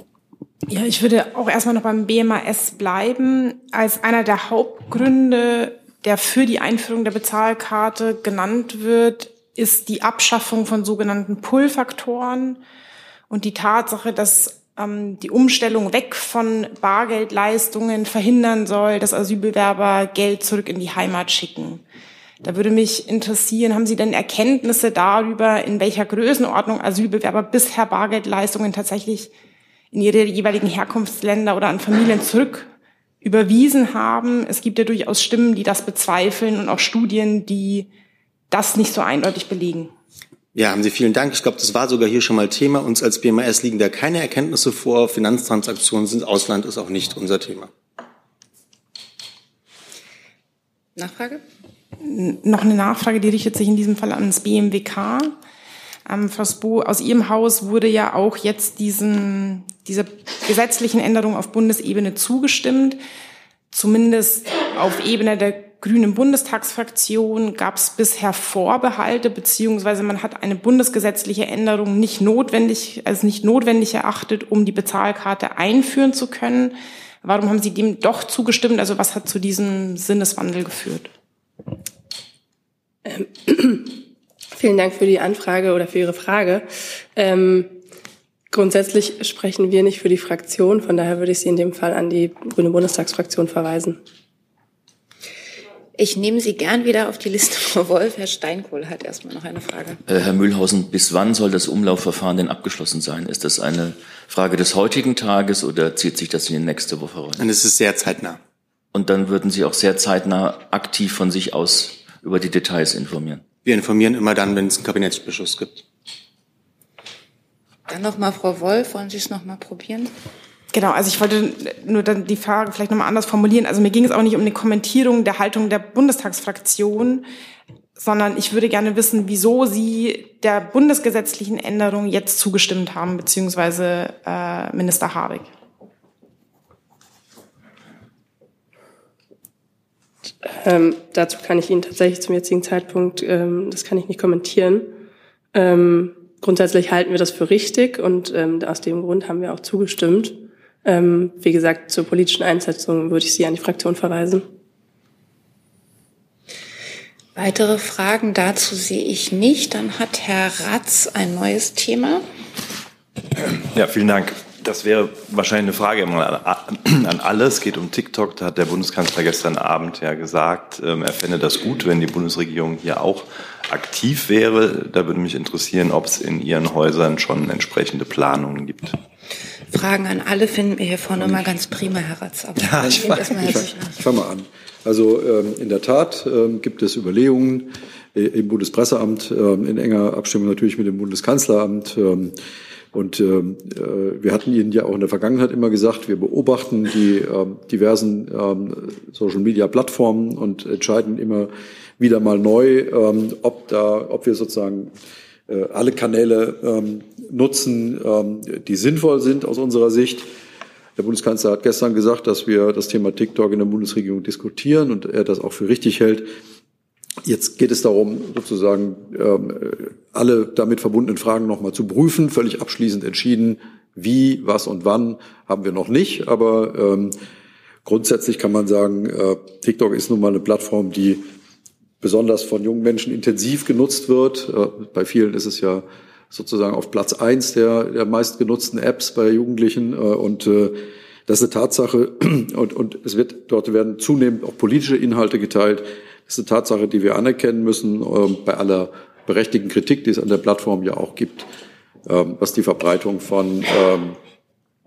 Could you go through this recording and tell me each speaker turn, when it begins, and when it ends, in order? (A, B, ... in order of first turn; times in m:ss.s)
0:00.7-0:12.6 A
0:13.3-0:21.8 A
0:22.4-0:29.3 A
0:29.9-0:32.7 A
0:33.2-0:37.9 A
0:38.5-0:39.9 A
0:40.5-0:47.7 B
0:51.0-0:51.4 C
0:52.0-0:55.4 A
0:56.0-1:03.0 A
1:03.7-1:21.1 A
1:23.0-1:24.0 D
1:24.5-1:27.8 D
1:28.5-1:34.0 D
1:36.0-1:40.0 C
1:40.1-1:47.4 E
1:47.4-1:48.4 B
1:48.9-1:53.4 E
1:53.6-1:55.8 B
1:57.9-2:00.1 C
2:00.7-2:07.2 A
2:08.0-2:15.5 A
2:20.4-2:24.9 D
2:25.5-2:34.4 D
2:37.4-2:42.2 C
2:43.4-2:59.0 F
2:59.7-3:03.9 C
3:02.8-3:12.4 G
3:12.9-3:24.9 G
3:25.5-3:30.3 G
3:31.0-3:36.3 G
3:37.2-3:47.2 G
3:47.8-3:51.2 G
3:52.0-4:11.5 G
4:12.0-4:14.2 G